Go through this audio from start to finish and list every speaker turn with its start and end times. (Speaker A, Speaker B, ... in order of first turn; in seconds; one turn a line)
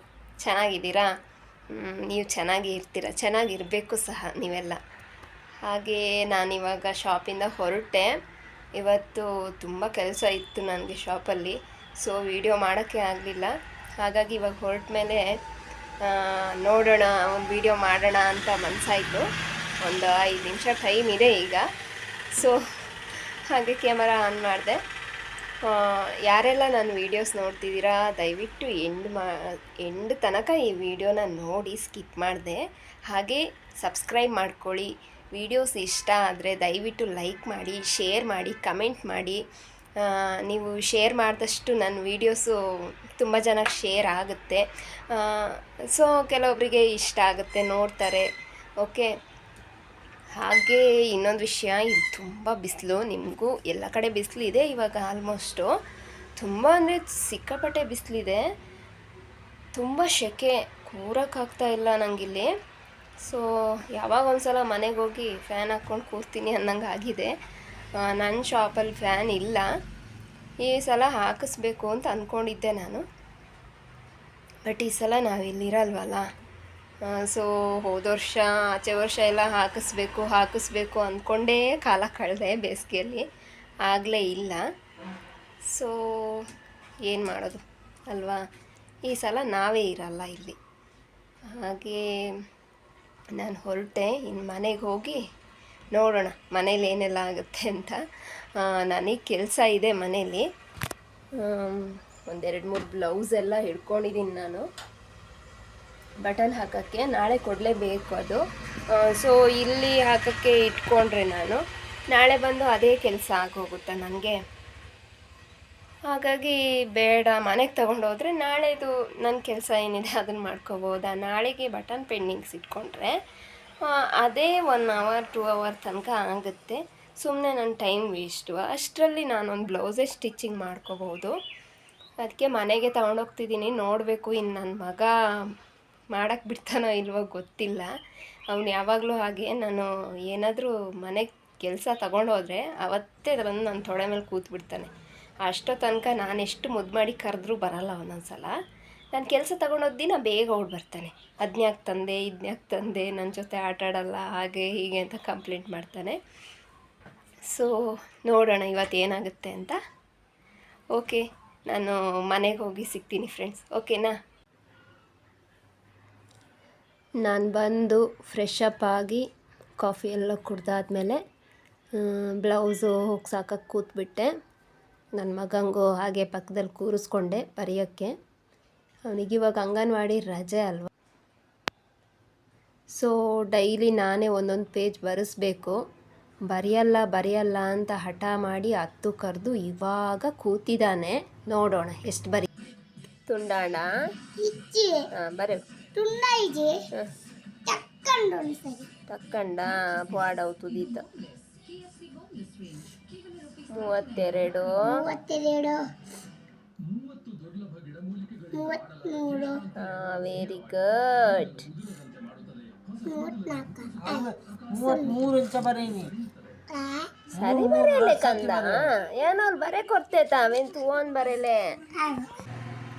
Speaker A: 0.4-1.1
Speaker A: 1.7-4.8
Speaker A: 5.7-8.1
Speaker A: 8.8-13.5
Speaker A: 14.0-15.2
Speaker A: 16.0-19.2
Speaker A: 19.8-21.6
Speaker A: 22.3-22.6
Speaker A: 23.5-24.8
Speaker A: 25.6-39.4
Speaker A: 40.0-42.6
Speaker A: 43.2-48.3
Speaker A: 48.8-49.1
Speaker A: 50.3-55.7
Speaker A: 56.4-58.4
Speaker A: 59.7-62.5
Speaker A: 63.2-67.3
Speaker A: 68.0-69.7
Speaker A: 70.6-73.0
Speaker A: 74.7-76.2
Speaker A: 77.1-83.2
Speaker A: 83.8-84.6
Speaker A: 85.7-86.5
Speaker A: 87.0-88.4
Speaker A: 89.0-90.5
Speaker A: 91.5-92.1
Speaker A: 93.3-95.2
Speaker A: 95.9-98.0
Speaker A: 98.6-100.4
Speaker A: 101.4-104.6
Speaker A: 106.2-108.4
Speaker A: 108.9-114.3
Speaker A: 116.1-123.1
Speaker A: 123.8-131.3
Speaker A: 132.2-135.1
Speaker A: 136.1-137.9
Speaker A: 138.5-144.9
Speaker A: 145.4-148.5
Speaker A: 149.1-156.2
Speaker A: 157.5-159.8
Speaker A: 160.9-164.1
Speaker A: 167.2-169.2
Speaker A: 169.8-171.2
Speaker A: 172.0-174.3
Speaker A: 175.2-178.1
Speaker A: 179.1-180.9
Speaker A: 182.9-185.8
Speaker A: 186.5-192.5
Speaker A: 193.3-193.9
Speaker B: 194.4-195.1
Speaker A: 195.1-195.6
Speaker B: 195.9-196.8
Speaker B: 197.7-198.9
Speaker A: 199.1-201.1
Speaker A: 203.7-204.9
Speaker B: 204.8-205.8
Speaker B: 208.5-209.6
Speaker A: 209.7-211.7
Speaker B: 213.0-215.2
Speaker C: 214.1-216.1
Speaker B: 216.7-217.1
Speaker A: 217.3-221.6
Speaker C: 217.4-218.7
Speaker B: 222.0-222.3